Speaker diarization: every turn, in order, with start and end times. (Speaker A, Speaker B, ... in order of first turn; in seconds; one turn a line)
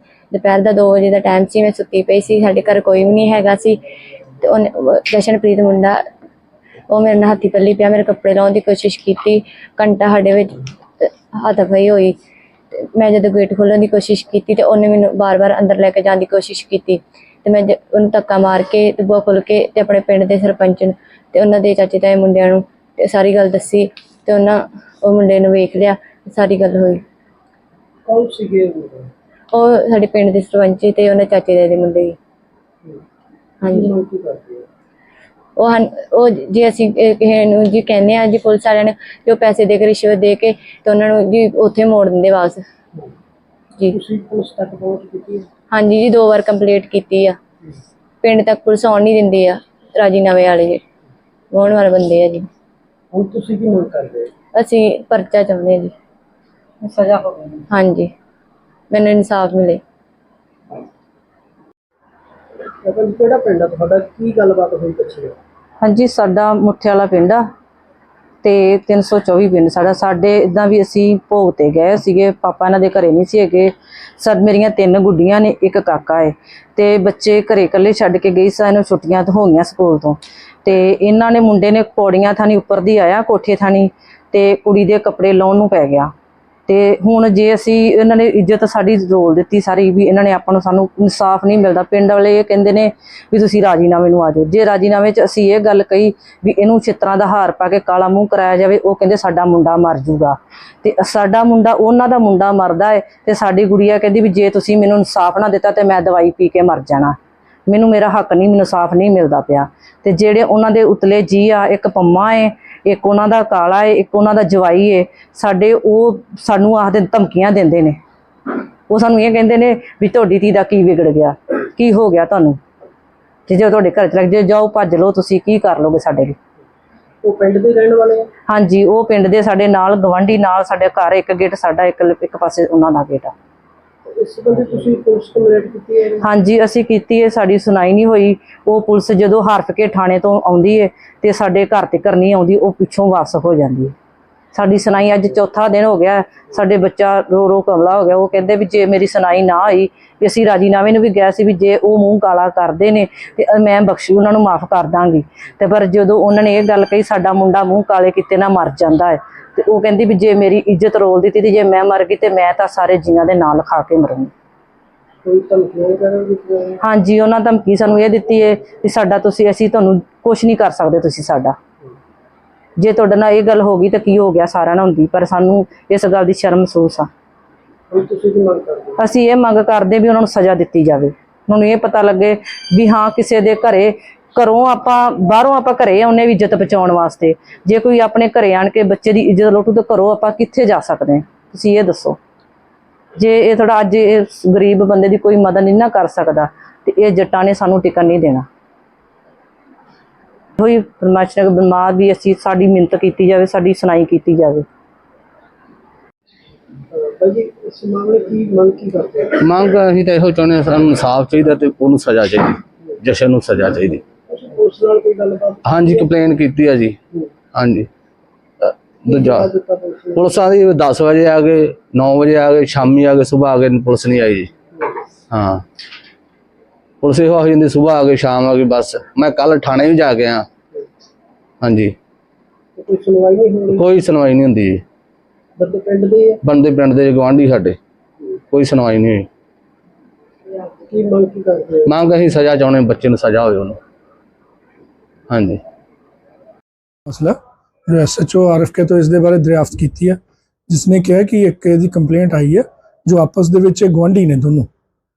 Speaker A: 0.3-3.8
Speaker A: 4.4-6.0
Speaker A: 6.9-12.2
Speaker A: 12.8-27.0
Speaker B: 28.1-29.1
Speaker A: 29.5-32.2
Speaker A: 33.6-33.9
Speaker B: 33.7-34.7
Speaker A: 35.6-42.6
Speaker B: 43.9-45.5
Speaker A: 45.7-47.4
Speaker A: 48.2-50.8
Speaker A: 51.5-52.5
Speaker B: 53.1-54.3
Speaker A: 54.5-55.9
Speaker C: 56.8-57.6
Speaker A: 57.7-58.1
Speaker A: 58.9-59.8
Speaker B: 62.8-65.3
Speaker C: 65.8-67.5
Speaker C: 68.4-86.1
Speaker C: 86.7-107.2
Speaker C: 107.7-118.0
Speaker C: 118.9-122.6
Speaker C: 123.5-126.4
Speaker B: 127.2-128.3
Speaker C: 128.5-133.3
Speaker B: 134.1-136.3
Speaker C: 136.2-143.9
Speaker C: 144.5-164.3
Speaker B: 165.2-166.8
Speaker C: 166.8-171.6
Speaker C: 172.8-177.1
Speaker B: 177.9-179.0
Speaker C: 179.0-192.2
Speaker C: 193.2-198.5
Speaker C: 200.6-204.7
Speaker B: 206.9-209.4
Speaker D: 209.4-214.0
Speaker B: 214.3-216.1
Speaker D: 215.7-217.0
Speaker D: 217.5-217.9
Speaker D: 218.6-219.5
Speaker B: 219.1-220.2
Speaker D: 220.2-224.5
Speaker D: 225.3-225.6
Speaker D: 227.0-230.5
Speaker D: 231.6-231.9
Speaker B: 232.8-233.8
Speaker D: 233.8-234.8
Speaker B: 235.6-236.4
Speaker D: 236.4-237.8
Speaker D: 238.5-239.3
Speaker B: 240.6-241.9
Speaker D: 241.9-243.8
Speaker D: 245.3-245.6
Speaker E: 247.1-254.7